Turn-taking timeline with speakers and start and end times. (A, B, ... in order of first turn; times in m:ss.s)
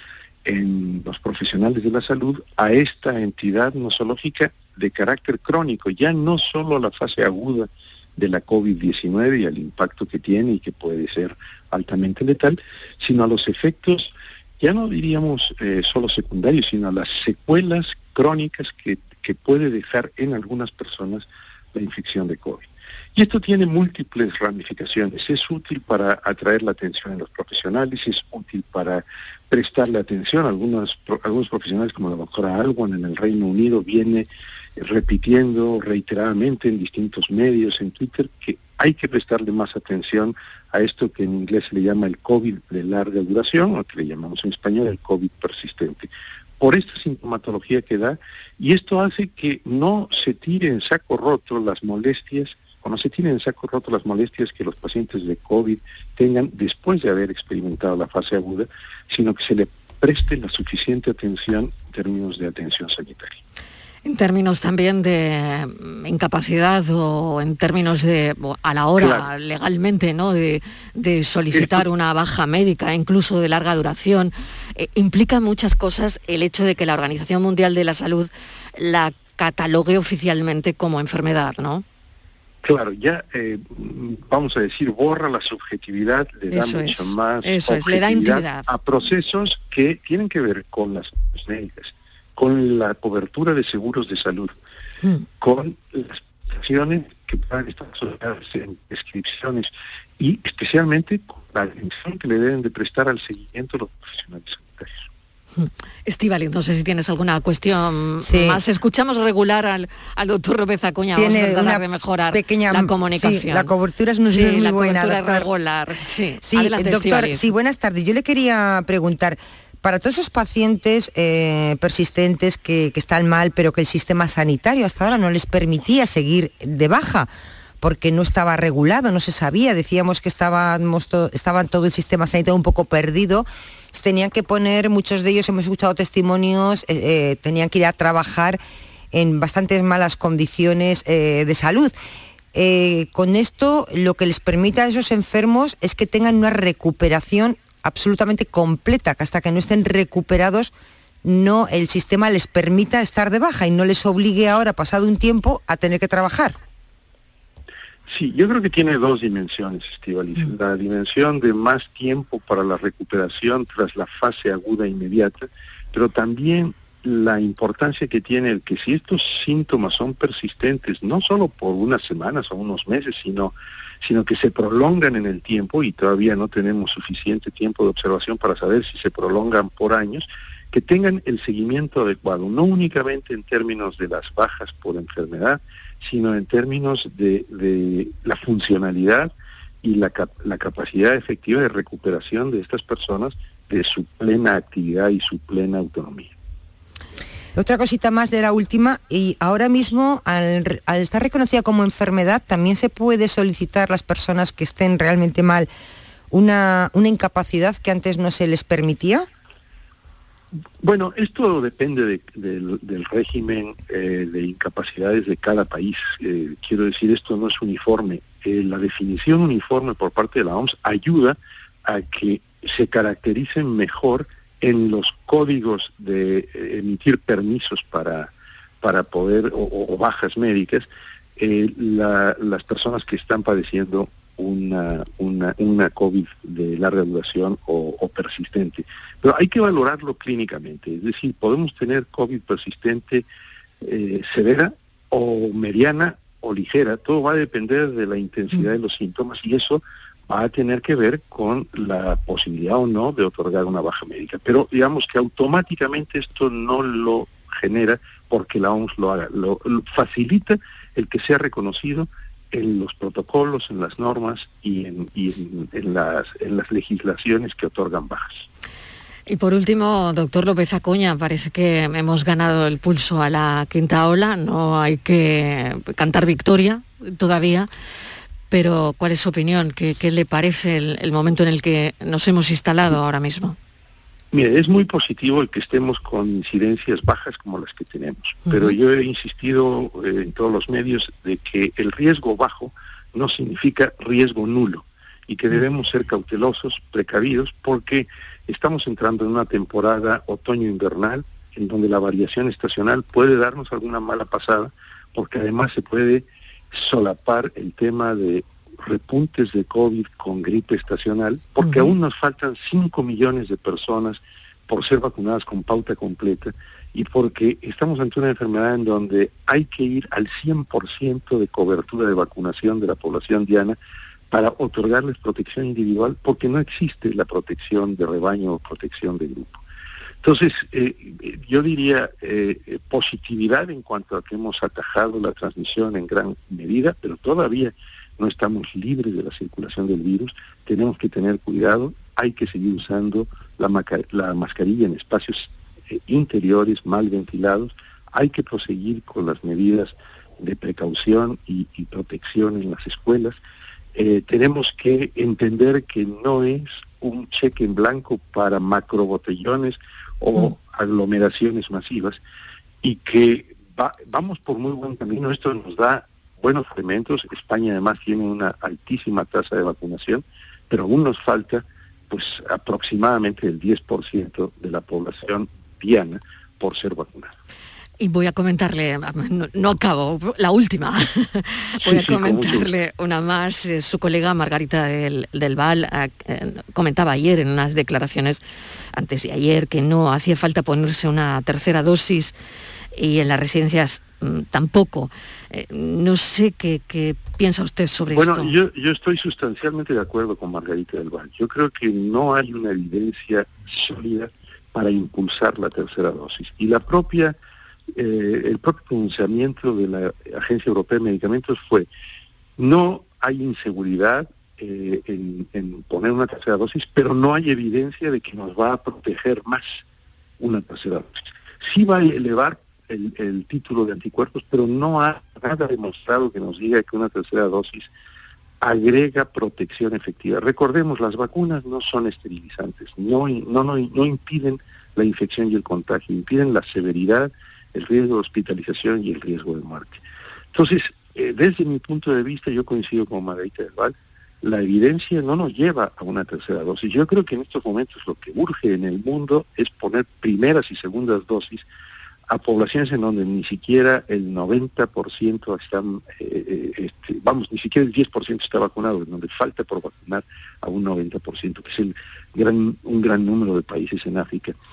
0:00.4-0:46.1 A
0:46.6-1:03.4 A
1:04.0-1:21.8 B
1:09.0-1:09.3 A
1:11.5-1:11.8 A
1:22.6-1:34.6 A
1:26.5-1:28.7 B
1:35.4-1:45.1 A
1:45.6-1:53.7 B
1:48.2-1:48.6 C
1:51.2-1:55.5 C
1:54.3-1:57.5 B
1:56.4-2:07.3 C
2:07.8-2:18.6 C
2:19.1-2:22.0 C
2:22.5-2:30.7 C
2:31.2-2:36.6 C
2:38.1-3:09.3 A
3:09.8-3:16.3 A
3:17.6-3:25.7 C
3:26.3-3:29.3 C
3:30.8-3:50.9 A
3:51.4-4:03.2 A
4:03.8-4:28.5 A
4:29.3-4:37.7 B
4:38.5-4:43.6 B
4:44.3-5:23.8 A
4:48.5-4:48.7 B
5:11.6-5:11.9 B
5:24.3-5:29.6 A
5:30.2-5:53.4 A
5:54.0-6:02.2 A
6:02.8-6:17.3 A
6:18.0-6:28.4 B
6:21.8-6:22.7 A
6:28.9-6:32.4 B
6:33.0-6:38.5 B
6:38.1-6:47.4 A
6:48.0-6:51.9 A
6:52.6-6:59.8 A
7:00.4-7:07.9 A
7:08.6-7:20.0 A
7:20.5-7:31.6 A
7:32.3-7:44.6 A